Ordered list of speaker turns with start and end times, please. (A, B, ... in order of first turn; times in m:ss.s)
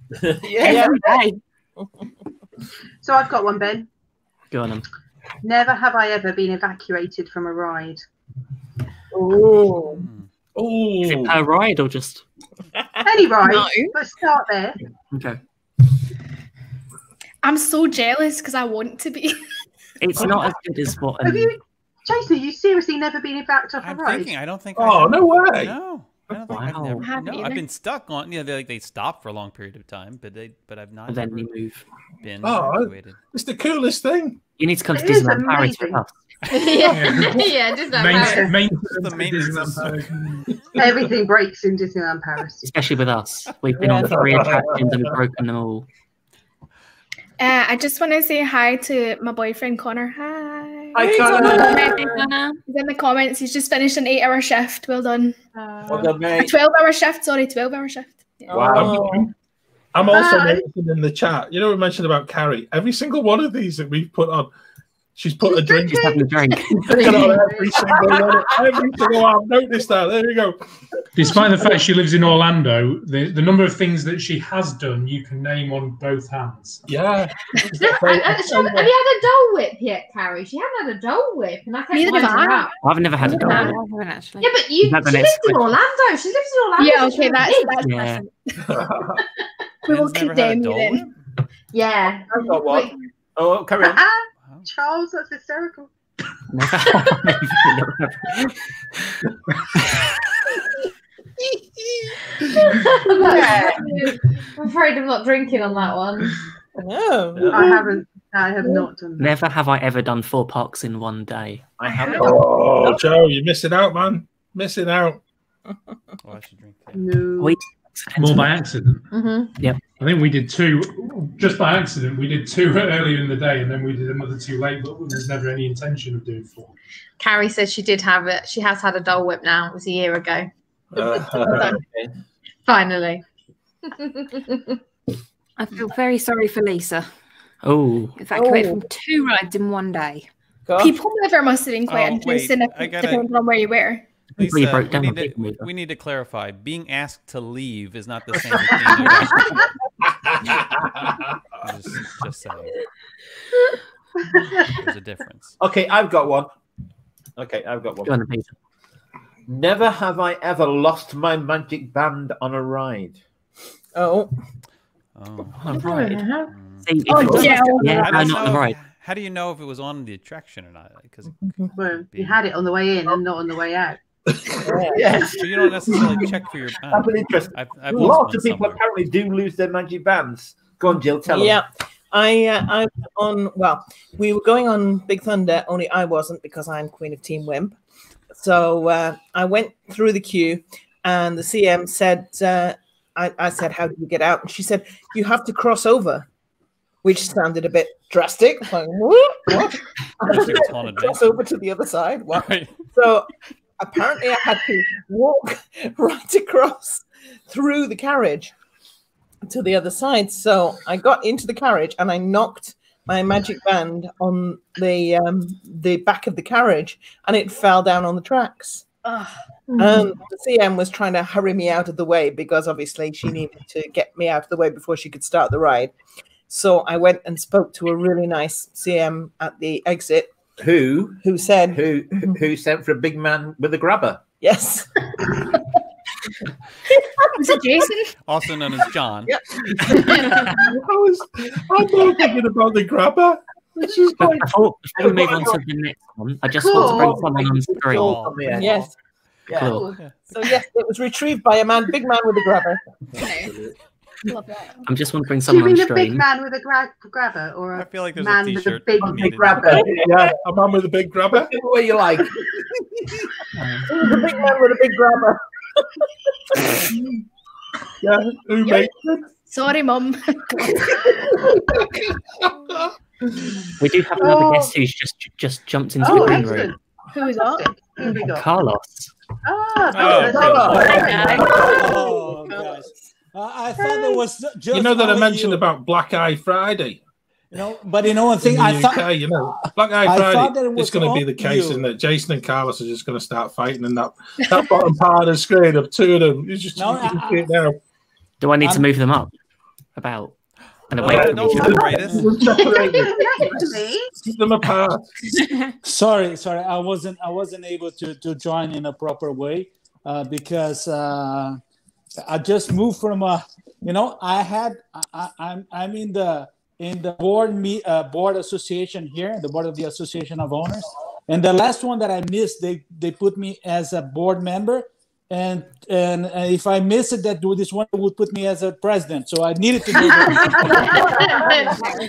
0:00.2-0:00.9 A
0:00.6-0:01.0 B
0:00.6-0:01.4 C
0:03.0-0:03.9 D
0:04.5-0:04.8 E
0:05.4-0:08.0 D
0:09.1-0:10.0 B
0:09.8-0:10.3 F
0:10.5-0:11.4 G
0:11.0-0:12.2 E
0:13.0-0:14.8 D
0:13.4-0:13.9 C
0:15.1-0:15.4 E
0:17.4-0:19.4 H
0:20.0-0:21.5 E
0:21.2-0:24.3 D
0:23.8-0:31.6 F
0:24.8-0:25.7 G
0:26.5-0:27.1 E
0:27.0-0:27.6 H
0:31.1-0:31.8 E
0:32.2-0:33.2 F
0:32.4-0:34.4 G
0:34.6-0:36.1 E
0:34.9-0:36.0 D
0:36.4-0:36.7 F
0:36.5-0:38.5 I
0:36.8-0:39.8 J
0:38.1-0:38.5 D
0:38.8-0:40.1 F
0:39.1-0:40.4 G
0:40.7-0:42.7 D
0:42.6-0:45.8 E
0:43.8-0:44.2 B
0:44.0-0:45.1 G
0:47.4-0:52.1 H
0:50.9-0:52.2 A
0:51.2-0:52.6 C
0:52.7-0:55.4 H
0:55.8-0:56.5 A
0:56.3-0:58.8 H
0:58.5-0:59.2 A
0:58.5-0:59.3 B
0:58.7-0:59.3 G
0:59.9-1:04.5 G
1:00.0-1:00.6 D
1:05.2-1:10.6 G
1:05.5-1:06.2 D
1:05.8-1:07.4 E
1:06.9-1:08.2 D
1:11.1-1:16.8 J
1:16.9-1:18.9 G
1:17.7-1:22.7 I
1:21.9-1:23.8 H
1:22.8-1:23.8 E
1:23.2-1:24.6 C
1:24.4-1:27.8 I
1:24.8-1:25.7 E
1:26.8-1:28.6 H
1:27.8-1:28.2 E
1:28.6-1:29.2 G
1:29.9-1:31.1 H
1:29.9-1:31.1 F
1:31.7-1:32.9 I
1:32.3-1:34.0 A
1:33.8-1:35.9 D
1:36.5-1:38.5 E
1:42.6-1:46.4 I
1:43.3-1:43.8 B
1:43.7-1:44.0 H
1:46.8-1:48.0 B
1:47.4-1:47.7 A
1:47.5-1:49.3 D
1:49.2-1:51.6 E
1:51.8-1:52.7 A
1:51.9-1:52.2 H
1:52.2-1:55.2 G
1:56.2-1:57.1 F
1:56.9-1:57.6 D
1:57.4-1:58.5 E
1:58.2-1:59.0 J
1:59.1-1:59.6 I
1:59.9-2:06.7 J
2:07.2-2:10.5 I
2:10.9-2:11.8 G
2:11.3-2:11.8 H
2:11.6-2:12.1 A
2:12.6-2:13.2 I
2:14.0-2:14.6 I
2:15.6-2:17.1 C
2:17.6-2:18.2 E
2:18.2-2:20.3 C
2:18.3-2:18.8 B
2:20.7-2:20.9 B
2:20.8-2:24.0 H
2:21.9-2:23.3 F
2:24.4-2:29.6 F
2:24.4-2:25.7 E
2:31.6-2:32.7 F
2:34.5-2:35.6 F
2:35.6-2:36.5 A
2:37.4-2:38.1 A
2:38.0-2:38.5 E
2:39.5-2:43.2 A
2:43.9-2:44.3 B
2:45.2-2:52.4 F
2:45.6-2:46.2 E
2:45.7-2:46.5 C
2:46.8-2:48.8 E
2:47.0-2:48.1 H
2:47.2-2:47.7 A
2:51.8-2:54.0 D
2:54.6-2:55.3 B
2:54.7-2:56.2 A
2:55.2-2:58.8 F
2:56.9-3:01.6 A
3:01.3-3:07.8 B
3:08.4-3:16.2 B
3:17.0-3:23.3 B
3:20.2-3:21.4 F
3:22.3-3:22.8 F
3:23.8-3:28.5 B
3:29.4-3:38.8 B
3:39.8-3:45.9 B
3:46.5-3:50.3 B
3:50.6-3:51.2 A
3:51.2-3:51.8 B
3:51.7-3:54.2 A
3:54.4-3:54.9 B
3:57.3-3:58.1 H
3:58.2-4:00.1 F
3:59.3-4:00.4 B
4:00.5-4:03.4 G
4:04.2-4:08.3 E
4:05.0-4:05.6 A
4:06.6-4:07.2 D
4:06.8-4:08.9 A
4:07.8-4:08.9 F
4:08.6-4:08.9 B
4:09.5-4:09.8 A
4:09.5-4:09.9 E
4:09.9-4:10.3 F
4:10.3-4:12.8 B
4:13.2-4:13.5 H
4:14.3-4:14.8 H
4:14.8-4:16.2 E
4:15.5-4:19.9 D
4:17.7-4:19.8 F
4:19.0-4:20.2 A
4:19.9-4:21.5 G
4:21.4-4:22.4 A
4:23.6-4:23.8 E
4:23.9-4:25.4 B
4:24.1-4:24.5 A
4:28.0-4:29.2 G
4:29.5-4:30.9 H
4:33.8-4:36.7 E
4:34.2-4:34.7 D
4:36.0-4:38.5 D
4:37.1-4:37.7 H
4:38.1-4:39.1 E
4:39.4-4:41.2 D
4:39.9-4:41.1 F
4:40.1-4:41.7 A
4:40.6-4:42.7 B
4:40.7-4:45.6 K
4:43.8-4:44.2 D
4:44.7-4:47.0 G
4:47.5-4:51.8 K
4:48.4-4:57.8 G
4:56.8-4:57.5 K
4:58.4-4:59.3 E
4:58.6-4:58.9 K
5:00.0-5:00.3 E
5:00.9-5:01.7 E
5:00.9-5:02.5 F
5:01.0-5:03.6 G
5:02.5-5:04.1 D
5:04.2-5:05.1 G
5:05.8-5:11.6 K
5:12.2-5:31.1 K
5:30.0-5:31.9 D
5:31.2-5:31.9 H